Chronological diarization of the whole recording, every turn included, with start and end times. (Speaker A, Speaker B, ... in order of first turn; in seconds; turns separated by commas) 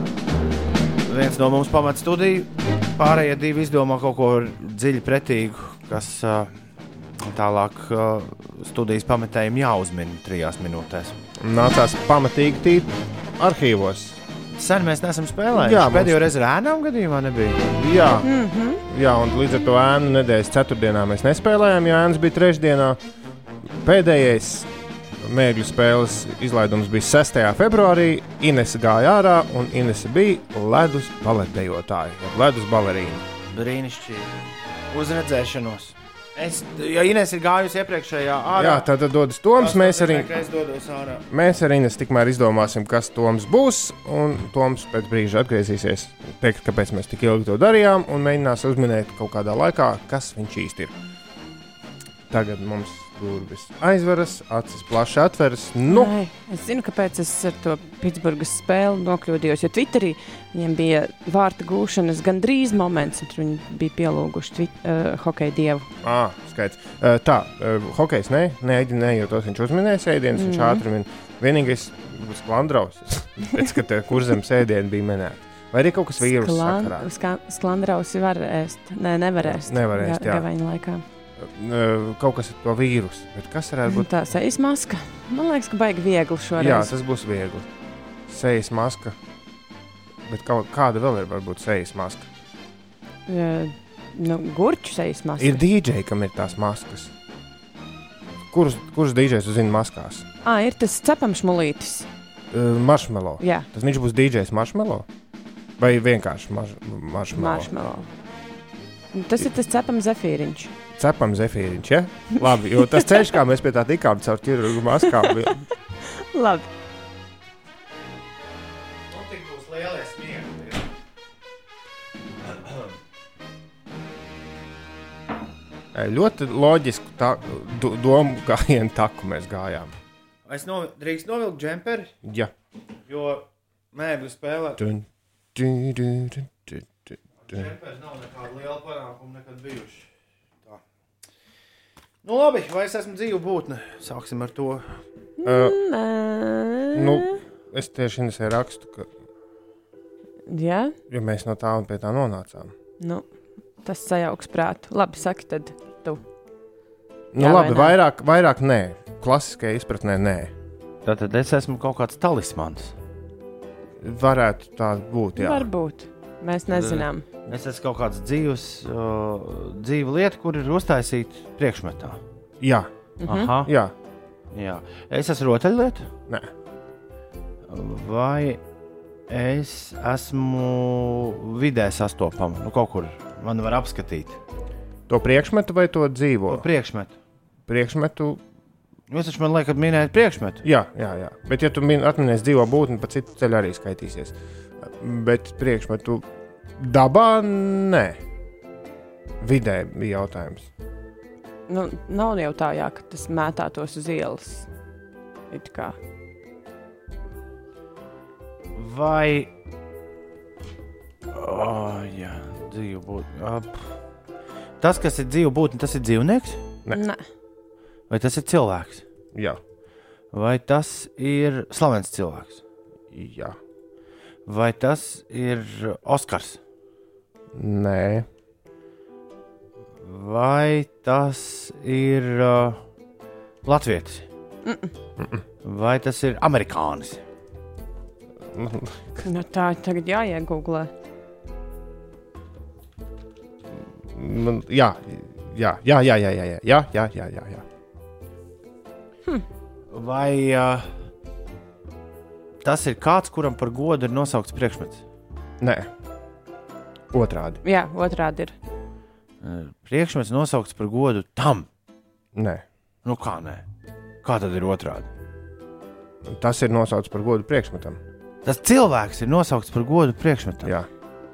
Speaker A: 1.0-6.5, Speaker A: 7.2-11.2, Speaker B: 11.4-14.2, Speaker A: 14.5-17.8, Speaker B: 15.5-16.3, Speaker B: 17.8-18.3, Speaker C: 18.1-18.8, Speaker B: 18.9-23.0, Speaker B: 23.8-24.7, Speaker B: 25.2-33.2, Speaker A: 33.5-34.3, Speaker A: 34.9-38.9, Speaker B: 38.5-40.3, Speaker A: 39.5-41.2, Speaker B: 41.3-50.9, Speaker B: 52.3-56.1, Speaker C: 55.9-65.9, Speaker B: 66.0-77.1, Speaker C: 70.3-70.8, Speaker C: 76.2-81.0, Speaker B: 79.5-80.5, Speaker B: 81.4-84.1, Speaker C: 83.9-87.0, Speaker B: 86.6-87.7, Speaker B: 88.3-89.2, Speaker B: 90.2-92.3, Speaker C: 93.3-95.6, Speaker B: 95.4-97.1, Speaker B: 98.5-100.2, Speaker C: 100.4-102.1, Speaker B: 102.5-105.0, Speaker C: 103.4-103.7, Speaker B: 105.8-107.7, Speaker C: 107.3-108.1, Speaker C: 109.1-110.7, Speaker B: 110.9-115.7, Speaker C: 112.4-113.3, Speaker C: 115.0-116.7, Speaker A: 119.1-120.9, Speaker A: 122.5-122.9, Speaker B: 125.9-129.9, Speaker A: 130.4-132.1, Speaker B: 132.2-132.5, Speaker A: 133.1-134.8, Speaker B: 134.8-136.8, Speaker A: 137.4-140.1, Speaker A: 142.2-145.0, Speaker C: 145.4-147.4, Speaker B: 145.4-145.8, Speaker B: 146.9-149.1, Speaker C: 150.5-150.9, Speaker B: 151.1-152.7, Speaker C: 153.0-153.3, Speaker C: 153.8-156.2, Speaker B: 157.3-160.5, Speaker C: 157.3-158.0, Speaker A: 161.0-162.9, Speaker B: 164.0-165.7, Speaker C: 165.3-167.3, Speaker A: 166.7-172.2, Speaker B: 172.6-172.9, Speaker C: 173.2-173.6, Speaker A: 173.2-173.7, Speaker B: 173.5-173.9, Speaker A: 174.5-176.1, Speaker A: 177.7-178.6, Speaker A: 179.3-184.4, Speaker B: 185.1-186.7, Speaker A: 186.5-187.2, Speaker B: 187.7-188.4, Speaker A: 189.1-190.6, Speaker B: 190.6-196.2, Speaker B: 196.8-198.2, Speaker B: 199.4-200.7, Speaker C: 201.7-204.7, Speaker C: 205.5-206.0, Speaker A: 208.7-209.5, Speaker A: 211.3-213.9, Speaker A: 214.8-216.6, Speaker C: 216.9-217.2, Speaker A: 218.1-219.0, Speaker A: 220.3-222.6, Speaker B: 223.1-223.6, Speaker A: 224.4-226.6, Speaker B: 227.5-228.2, Speaker A: 230.0-232.8, Speaker A: 233.6-234.3, Speaker C: 234.6-234.9, Speaker A: 235.6-237.2, Speaker B: 238.5-239.3, Speaker C: 239.2-240.9, Speaker B: 244.0-247.6, Speaker A: 249.9-250.9, Speaker A: 252.6-255.0, Speaker B: 255.6-255.9, Speaker B: 257.1-257.6, Speaker C: 257.6-258.5, Speaker A: 259.4-261.7, Speaker B: 262.3-262.6, Speaker A: 263.0-263.6, Speaker A: 264.2-265.1, Speaker B: 266.2-268.0, Speaker A: 268.4-270.7